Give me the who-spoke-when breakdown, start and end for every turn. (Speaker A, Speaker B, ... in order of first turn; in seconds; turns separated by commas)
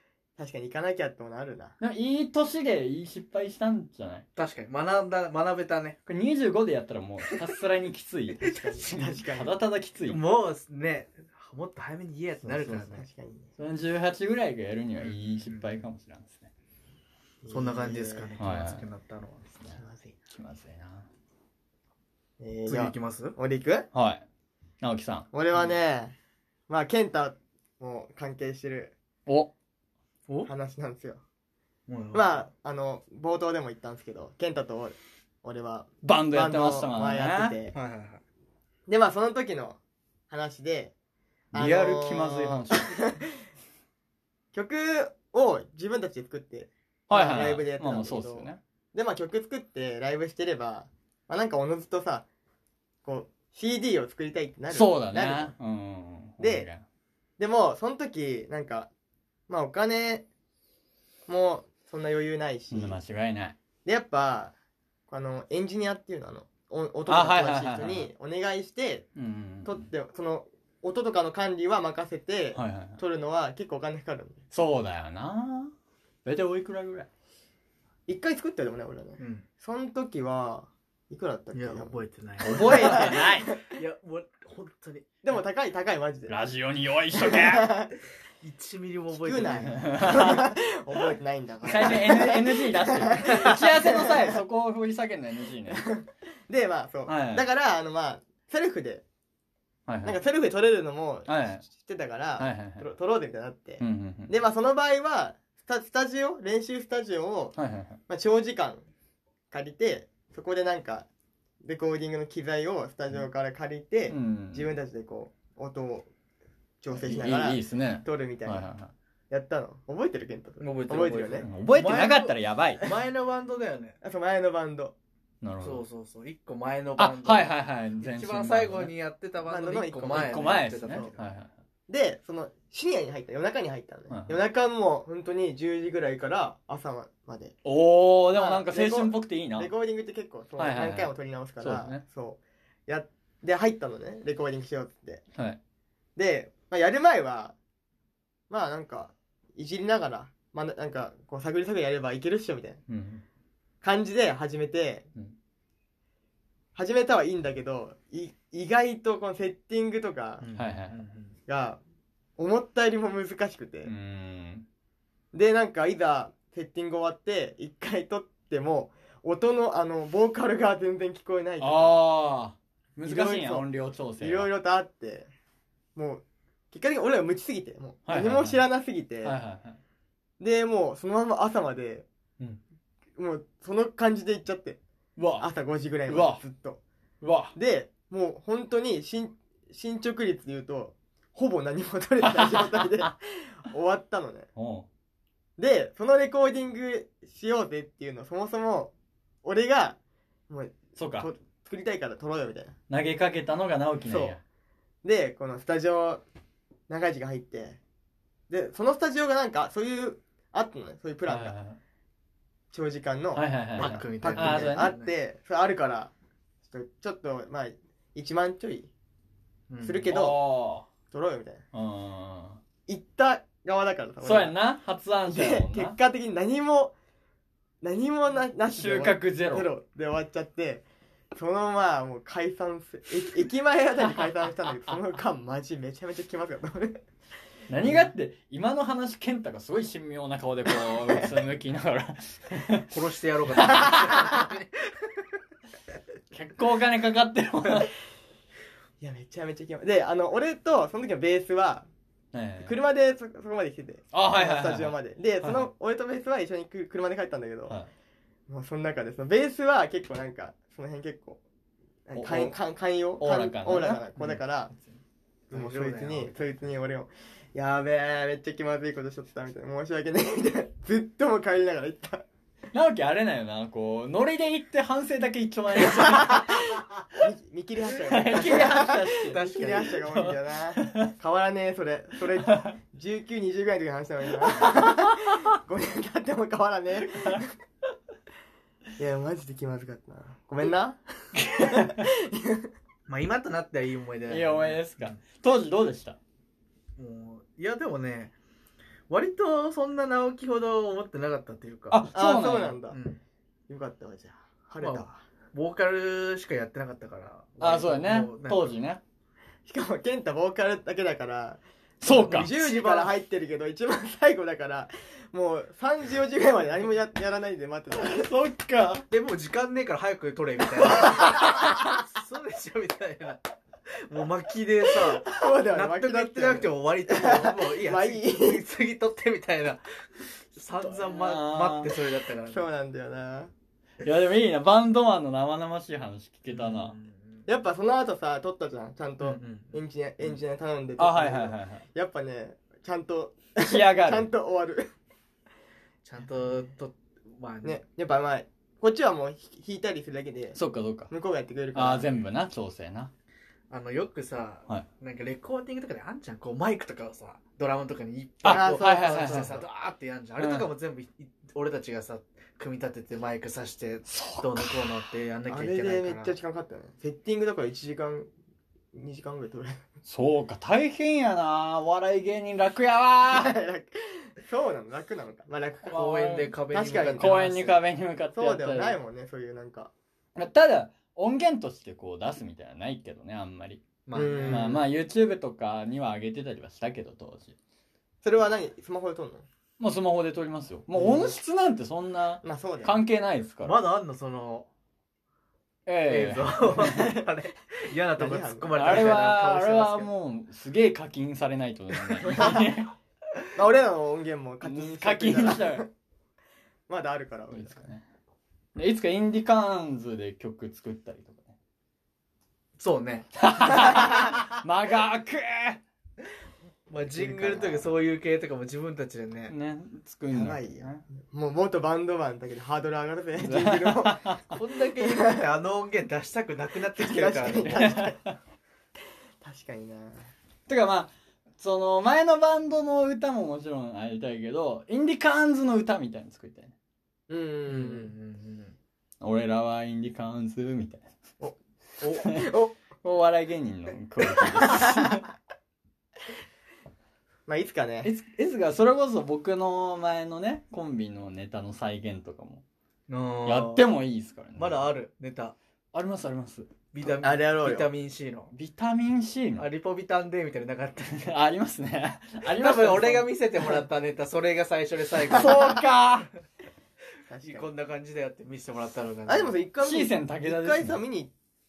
Speaker A: 0.4-1.7, Speaker B: 1.8-4.2, Speaker C: 4.3-6.0, Speaker B: 6.0-10.2, Speaker A: 8.3-9.6, Speaker C: 10.1-13.1, Speaker A: 12.4-13.5, Speaker B: 13.6-16.5, Speaker C: 15.0-15.6, Speaker A: 17.4-18.3, Speaker C: 17.5-19.6, Speaker B: 18.4-18.8, Speaker A: 19.7-20.1, Speaker B: 20.3-21.1, Speaker A: 22.4-23.9, Speaker C: 22.7-23.3, Speaker B: 23.9-24.2, Speaker B: 24.8-25.3, Speaker A: 25.3-26.1, Speaker A: 26.7-28.9, Speaker B: 29.2-29.5, Speaker A: 30.4-31.2, Speaker C: 31.9-32.2, Speaker A: 32.1-37.7, Speaker B: 36.0-37.5, Speaker C: 37.7-38.2, Speaker A: 38.9-39.8, Speaker A: 40.3-40.9, Speaker A: 41.5-43.3, Speaker B: 41.5-43.1, Speaker A: 44.5-52.2, Speaker B: 47.1-48.6, Speaker A: 53.0-55.5, Speaker B: 54.7-56.8, Speaker A: 56.4-56.7, Speaker A: 57.4-58.9, Speaker A: 59.5-60.2, Speaker A: 61.3-63.0, Speaker B: 62.7-63.6, Speaker A: 63.8-64.5, Speaker A: 65.1-69.0, Speaker B: 67.1-68.1, Speaker B: 69.2-69.8, Speaker A: 69.6-74.4, Speaker B: 72.5-73.0, Speaker B: 74.5-75.7, Speaker B: 76.2-77.1, Speaker A: 78.1-82.0, Speaker C: 79.2-79.4, Speaker C: 81.5-85.2, Speaker B: 82.4-83.5, Speaker A: 82.6-83.6, Speaker A: 85.2-86.3, Speaker B: 86.3-87.7, Speaker A: 87.1-88.0, Speaker C: 88.4-90.0, Speaker A: 89.1-94.4, Speaker B: 89.7-90.5, Speaker B: 91.6-95.9, Speaker A: 95.7-99.0, Speaker B: 97.0-97.4, Speaker B: 99.9-100.2, Speaker A: 100.0-107.6, Speaker B: 101.3-101.6, Speaker B: 102.4-102.8, Speaker B: 103.8-104.3, Speaker B: 107.5-108.0, Speaker A: 108.1-108.8, Speaker A: 109.5-111.1, Speaker A: 111.6-116.1, Speaker B: 114.1-114.7, Speaker A: 116.8-118.7, Speaker B: 116.9-118.9, Speaker A: 119.3-121.5, Speaker C: 120.6-124.0, Speaker B: 121.4-122.8, Speaker A: 124.0-124.9, Speaker B: 125.4-125.8, Speaker C: 125.6-131.2, Speaker B: 127.0-128.9, Speaker A: 129.4-131.1, Speaker B: 130.1-131.5, Speaker A: 131.9-137.6, Speaker B: 134.1-134.4, Speaker B: 137.6-139.7, Speaker A: 138.3-145.2, Speaker B: 140.6-142.0, Speaker A: 146.2-147.6, Speaker A: 148.5-152.8, Speaker B: 152.9-153.2, Speaker A: 153.8-155.1, Speaker A: 156.7-160.5, Speaker C: 160.4-161.3, Speaker B: 160.6-161.0, Speaker A: 161.5-161.8, Speaker A: 162.4-163.9, Speaker B: 163.8-164.7, Speaker A: 165.3-171.9, Speaker B: 171.6-174.5, Speaker A: 173.0-175.3, Speaker A: 175.9-179.4, Speaker B: 178.1-178.6, Speaker B: 179.2-179.8, Speaker A: 180.4-182.1, Speaker A: 183.2-184.8, Speaker B: 185.2-185.5, Speaker A: 185.4-186.8, Speaker B: 186.1-186.4, Speaker B: 187.2-187.5, Speaker A: 187.5-194.5, Speaker B: 192.2-193.1, Speaker B: 194.6-194.9, Speaker A: 195.6-198.9, Speaker A: 199.4-200.0, Speaker A: 200.5-202.7, Speaker B: 200.9-201.3, Speaker B: 202.9-204.4, Speaker A: 204.1-204.4, Speaker A: 205.0-206.2, Speaker A: 206.9-207.8, Speaker A: 208.5-211.6, Speaker B: 211.3-211.8, Speaker A: 212.7-216.1, Speaker B: 213.3-214.9, Speaker C: 213.8-215.1, Speaker A: 216.7-218.9, Speaker C: 219.7-220.1, Speaker A: 219.8-220.4, Speaker B: 220.1-220.9, Speaker A: 221.1-221.6, Speaker B: 221.7-222.6, Speaker A: 222.9-224.5, Speaker B: 224.2-226.0, Speaker A: 225.3-226.9, Speaker A: 227.8-237.0, Speaker B: 228.7-229.7, Speaker B: 237.7-242.9, Speaker C: 242.9-245.3, Speaker B: 243.5-244.4, Speaker B: 246.3-247.9, Speaker A: 249.0-251.9, Speaker B: 252.3-252.7, Speaker A: 252.6-257.8, Speaker B: 254.1-255.7, Speaker A: 258.5-261.4, Speaker A: 262.1-264.7, Speaker B: 262.1-262.5, Speaker B: 263.2-265.0, Speaker C: 265.5-266.7, Speaker A: 265.5-272.2, Speaker B: 272.7-276.8, Speaker A: 275.9-287.5, Speaker B: 278.0-281.1, Speaker C: 278.4-280.0, Speaker B: 282.4-282.7, Speaker B: 284.4-285.4, Speaker B: 286.9-287.5, Speaker A: 289.0-292.7, Speaker B: 291.4-292.1, Speaker C: 293.1-295.2, Speaker B: 294.3-296.2, Speaker C: 297.0-298.3, Speaker C: 299.1-302.2, Speaker B: 301.9-302.8, Speaker A: 302.1-303.0, Speaker C: 302.9-303.2, Speaker A: 303.7-305.2, Speaker C: 304.8-308.7, Speaker B: 307.6-309.0, Speaker A: 309.7-318.3, Speaker B: 312.0-312.5, Speaker C: 312.1-313.1, Speaker B: 317.9-319.1, Speaker C: 319.1-332.6, Speaker B: 321.0-321.9, Speaker A: 325.2-328.6, Speaker B: 330.8-331.9, Speaker A: 332.5-333.5, Speaker B: 334.0-336.9, Speaker C: 336.5-337.4, Speaker A: 337.5-344.9, Speaker C: 339.2-339.8, Speaker B: 341.0-341.9, Speaker B: 343.6-344.3, Speaker C: 346.0-347.8, Speaker A: 347.6-350.6, Speaker B: 350.5-351.1, Speaker A: 351.1-352.2, Speaker B: 351.7-353.1, Speaker C: 353.7-366.3, Speaker B: 358.4-359.6, Speaker A: 358.5-359.6, Speaker B: 360.4-360.7, Speaker B: 364.1-364.9, Speaker A: 365.5-368.3, Speaker A: 368.9-369.8, Speaker B: 370.0-373.6, Speaker A: 373.3-377.4, Speaker C: 375.9-377.8, Speaker B: 375.9-376.5, Speaker B: 377.2-379.0, Speaker A: 378.3-379.9, Speaker B: 380.4-383.9, Speaker C: 384.1-384.8, Speaker A: 384.1-384.8, Speaker B: 384.4-387.5, Speaker A: 388.2-389.4, Speaker B: 389.8-393.8, Speaker C: 390.9-391.3, Speaker A: 392.4-393.0, Speaker C: 393.6-394.7, Speaker B: 395.9-397.2, Speaker C: 396.1-400.0, Speaker A: 398.1-400.1, Speaker B: 398.7-402.9, Speaker A: 402.2-402.7, Speaker A: 403.5-405.9, Speaker B: 404.6-405.9, Speaker A: 406.9-407.8, Speaker B: 407.5-408.0, Speaker B: 408.7-411.5, Speaker C: 412.8-413.3, Speaker B: 413.4-415.8, Speaker C: 416.9-419.5, Speaker A: 417.2-417.7, Speaker B: 417.3-417.6, Speaker B: 419.5-421.0, Speaker A: 420.3-424.2, Speaker B: 423.4-424.6, Speaker C: 424.5-428.1, Speaker A: 425.1-425.4, Speaker A: 426.9-428.2, Speaker B: 427.8-428.3, Speaker A: 429.4-430.3, Speaker B: 430.7-436.7, Speaker A: 437.3-438.1, Speaker C: 437.7-438.7, Speaker B: 439.2-441.1, Speaker A: 441.4-442.7, Speaker B: 442.2-442.5, Speaker B: 443.0-445.2, Speaker A: 444.4-445.1, Speaker A: 447.5-448.1, Speaker B: 448.0-452.6, Speaker C: 453.1-453.9, Speaker B: 453.4-454.9, Speaker C: 454.6-455.6, Speaker B: 455.9-456.7, Speaker C: 456.9-458.5, Speaker A: 457.2-457.9, Speaker B: 458.5-459.6, Speaker C: 459.6-461.3, Speaker B: 461.1-463.8, Speaker C: 462.5-465.8, Speaker B: 465.3-466.3, Speaker A: 467.3-467.7, Speaker C: 467.4-469.6, Speaker A: 469.3-471.3, Speaker B: 469.8-471.0